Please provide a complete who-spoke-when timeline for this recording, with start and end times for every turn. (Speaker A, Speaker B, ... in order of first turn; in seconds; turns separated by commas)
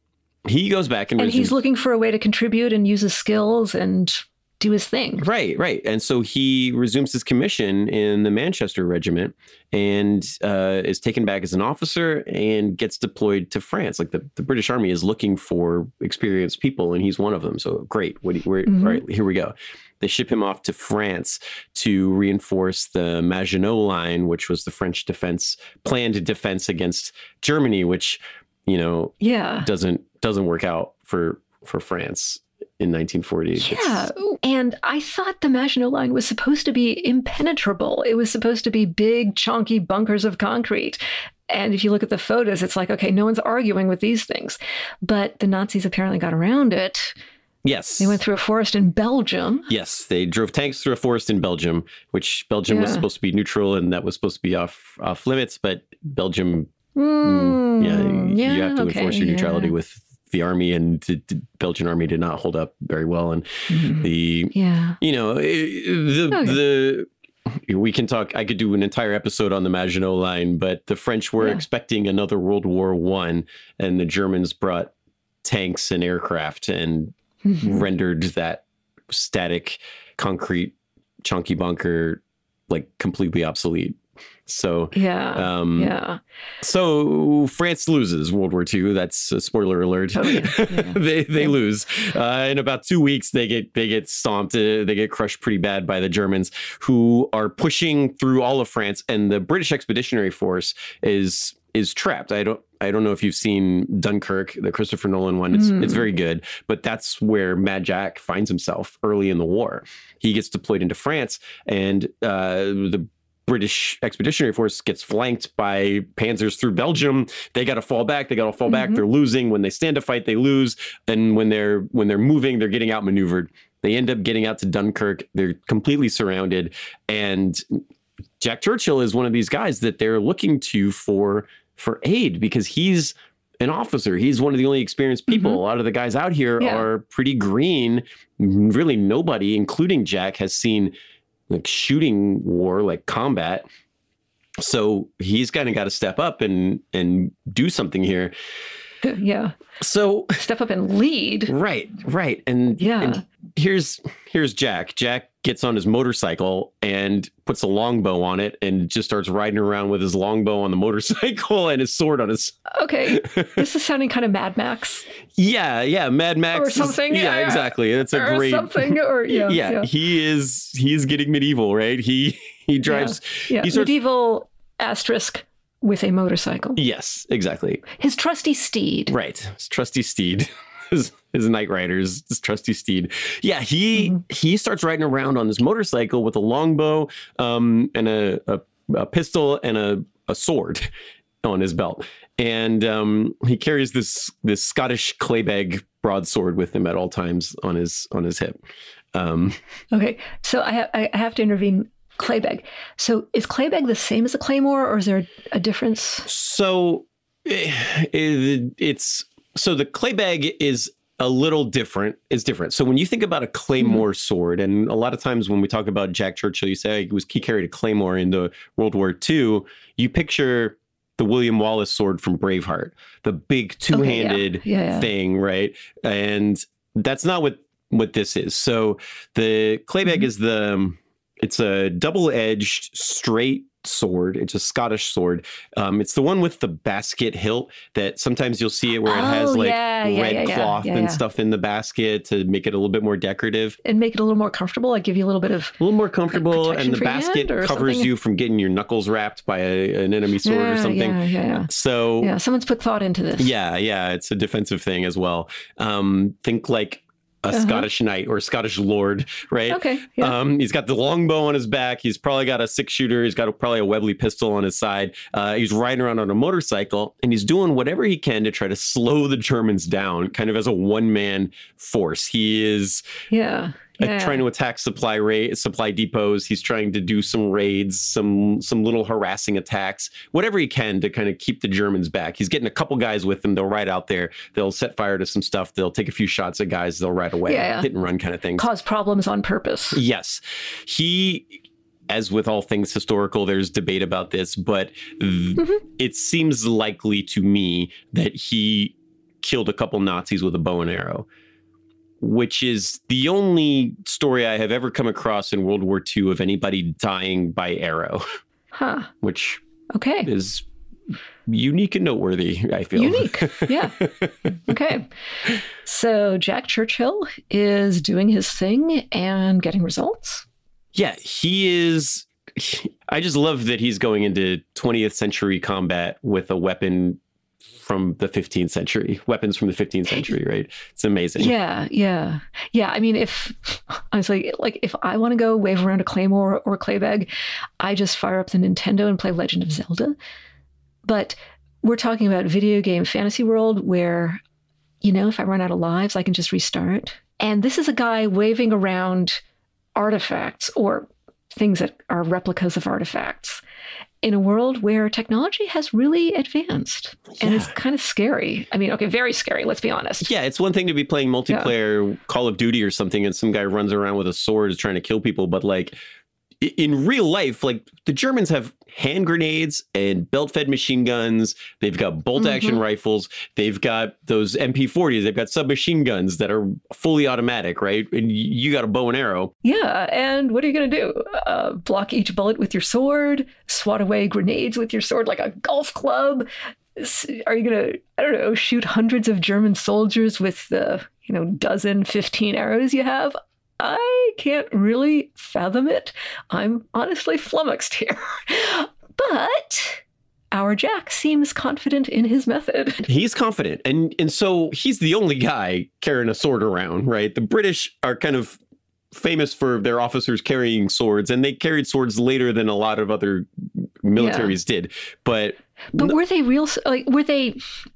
Speaker A: 0.5-1.6, Speaker B: 1.2-5.2, Speaker A: 5.2-34.1, Speaker B: 18.7-19.0, Speaker B: 29.2-29.7, Speaker B: 33.6-47.1, Speaker A: 47.6-48.2, Speaker B: 48.0-49.7, Speaker A: 49.7-74.9, Speaker B: 52.7-53.1, Speaker B: 57.0-59.7, Speaker B: 63.7-65.0, Speaker B: 66.3-66.6, Speaker A: 75.4-85.9, Speaker B: 77.4-77.9, Speaker B: 84.9-86.2, Speaker A: 86.6-127.8, Speaker B: 90.2-91.5, Speaker B: 105.5-106.1, Speaker B: 118.7-119.0, Speaker A: 128.4-140.9, Speaker B: 135.3-135.6, Speaker B: 136.6-136.8, Speaker A: 141.5-143.7, Speaker A: 144.6-148.3, Speaker B: 149.0-149.5, Speaker A: 149.8-150.4, Speaker B: 150.4-151.5, Speaker A: 151.5-163.6, Speaker B: 152.8-153.2, Speaker B: 162.7-165.1, Speaker A: 165.4-173.9, Speaker B: 166.5-169.9, Speaker B: 172.9-176.8, Speaker A: 176.8-177.8, Speaker B: 178.0-179.1, Speaker A: 179.1-190.9, Speaker A: 191.4-198.6, Speaker A: 199.1-199.6, Speaker B: 199.9-206.3, Speaker A: 206.3-243.8, Speaker B: 223.9-225.1, Speaker B: 239.1-241.2, Speaker B: 243.8-245.8, Speaker A: 245.8-252.3, Speaker B: 246.3-248.1, Speaker B: 250.4-251.7, Speaker B: 252.2-253.5, Speaker A: 253.4-273.1, Speaker B: 257.5-257.9, Speaker B: 259.7-260.3, Speaker B: 273.3-274.4, Speaker A: 274.0-288.7, Speaker B: 287.5-287.9, Speaker B: 288.6-290.0, Speaker A: 289.9-301.3, Speaker A: 302.2-308.4, Speaker B: 308.7-309.1, Speaker A: 309.2-309.6, Speaker B: 309.9-310.3, Speaker A: 310.2-310.6, Speaker A: 311.5-314.3, Speaker B: 313.0-314.1, Speaker B: 314.7-315.1, Speaker B: 315.7-320.4, Speaker A: 320.9-327.2, Speaker A: 327.8-331.5, Speaker B: 331.4-340.2, Speaker B: 341.0-344.4, Speaker B: 345.0-349.4, Speaker B: 350.0-353.6, Speaker B: 354.2-360.3, Speaker A: 357.4-357.7, Speaker A: 360.2-366.0, Speaker A: 366.6-379.5, Speaker B: 372.4-372.8, Speaker B: 379.6-403.1, Speaker A: 403.1-408.6, Speaker A: 409.1-416.2, Speaker B: 414.2-414.6, Speaker B: 415.9-417.6